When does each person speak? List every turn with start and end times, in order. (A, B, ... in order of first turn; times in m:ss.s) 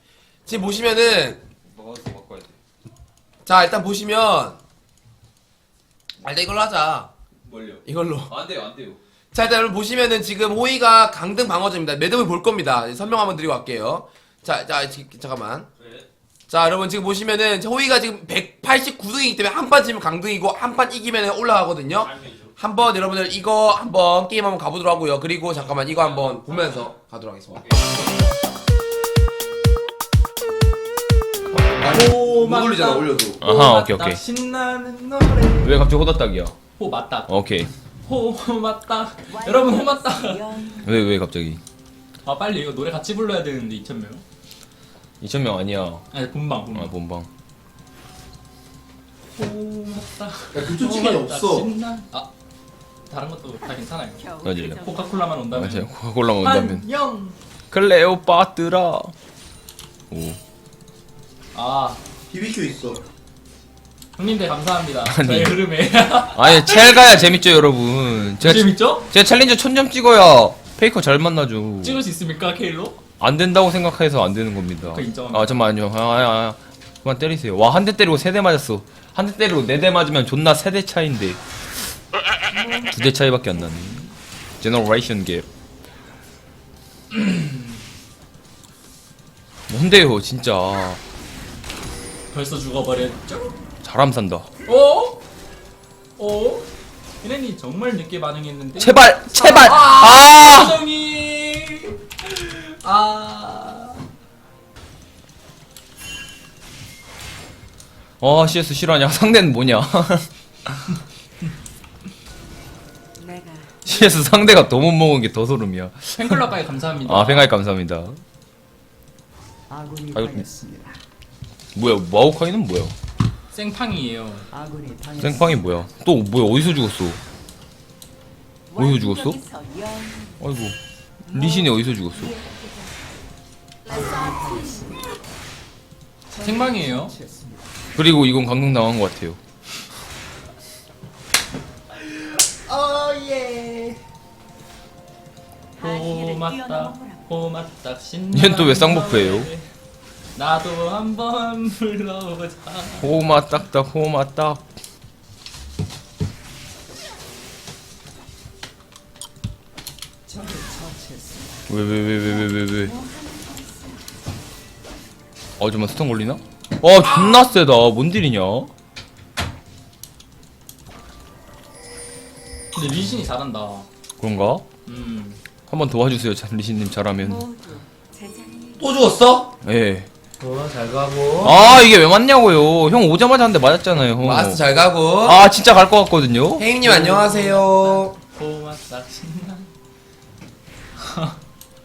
0:00.5-0:01.4 A
0:01.7-0:02.5 B
0:03.5-0:04.6 A
0:06.2-0:07.1 A
0:07.4-0:09.0 B
0:07.8-0:08.3 A
0:09.3-0:15.7 A
0:16.5-0:27.7 A
0:22.2-0:22.5 B
0:31.5-0:33.4 A
0:31.9-0:35.8 C
0:33.4-0:34.2 B
0:35.6-0:36.6 B
0:36.8-0:37.3 C
0:37.3-0:37.7 B
0:38.1-0:40.4 C
0:39.4-0:40.9 D
0:40.8-0:41.6 B
0:42.2-0:44.2 C
0:45.2-0:46.0 B
0:46.1-0:46.9 C
0:46.7-0:47.3 B
0:49.4-0:52.3 C
0:50.5-0:51.7 A
0:53.1-0:55.9 C
0:54.3-0:55.2 D
0:54.4-0:54.8 B
0:55.5-0:56.8 B
0:56.4-0:57.4 C
0:57.7-0:59.1 B
1:00.1-1:00.4 B
1:01.5-1:02.0 C
1:02.3-1:03.0 A
1:04.2-1:06.8 C
1:05.1-1:05.6 B
1:06.3-1:12.0 B
1:08.4-1:09.1 C
1:11.8-1:13.0 C
1:13.2-1:21.4 B
1:14.9-1:15.6 C
1:22.9-1:24.1 B
1:24.6-1:25.5 B
1:27.1-1:27.8 C
1:29.7-1:31.0 B
1:32.3-1:33.6 C
1:33.8-1:34.5 B
1:34.7-1:35.2 C
1:36.2-1:36.7 C
1:37.2-1:44.0 C
1:38.8-1:40.8 B
1:48.2-1:50.8 B
1:53.2-1:53.7 D
1:53.9-1:56.5 B
1:56.2-1:57.5 C
1:57.0-1:58.2 B
1:59.7-2:01.0 D
2:00.1-2:00.4 B
2:01.8-2:02.9 B
2:03.5-2:04.5 C
2:04.5-2:05.7 D
2:05.2-2:07.2 B
2:08.8-2:09.4 B
2:08.8-2:10.4 D
2:10.4-2:10.8 B
2:11.3-2:12.3 B
2:11.4-2:12.9 D
2:13.9-2:15.1 D
2:16.3-2:17.6 D
2:16.4-2:17.1 C
2:18.0-2:19.4 B
2:22.0-2:24.0 C
2:25.8-2:29.6 C
2:28.3-2:29.5 B
2:30.4-2:33.2 C
2:33.0-2:34.6 B
2:40.3-2:41.6 D
2:41.7-2:43.0 B
2:42.9-2:43.9 D
2:45.6-2:48.7 B
2:52.7-2:53.9 C
2:54.2-2:54.7 B
2:54.9-2:55.4 C
2:55.7-2:57.4 B
2:57.2-2:58.8 D
2:58.8-2:59.5 A
2:59.6-3:00.1 B
3:00.4-3:01.8 A
3:01.4-3:04.6 B
3:04.2-3:05.4 A
3:05.2-3:06.6 B
3:06.6-3:08.2 A
3:06.8-3:09.7 C
3:11.0-3:11.4 C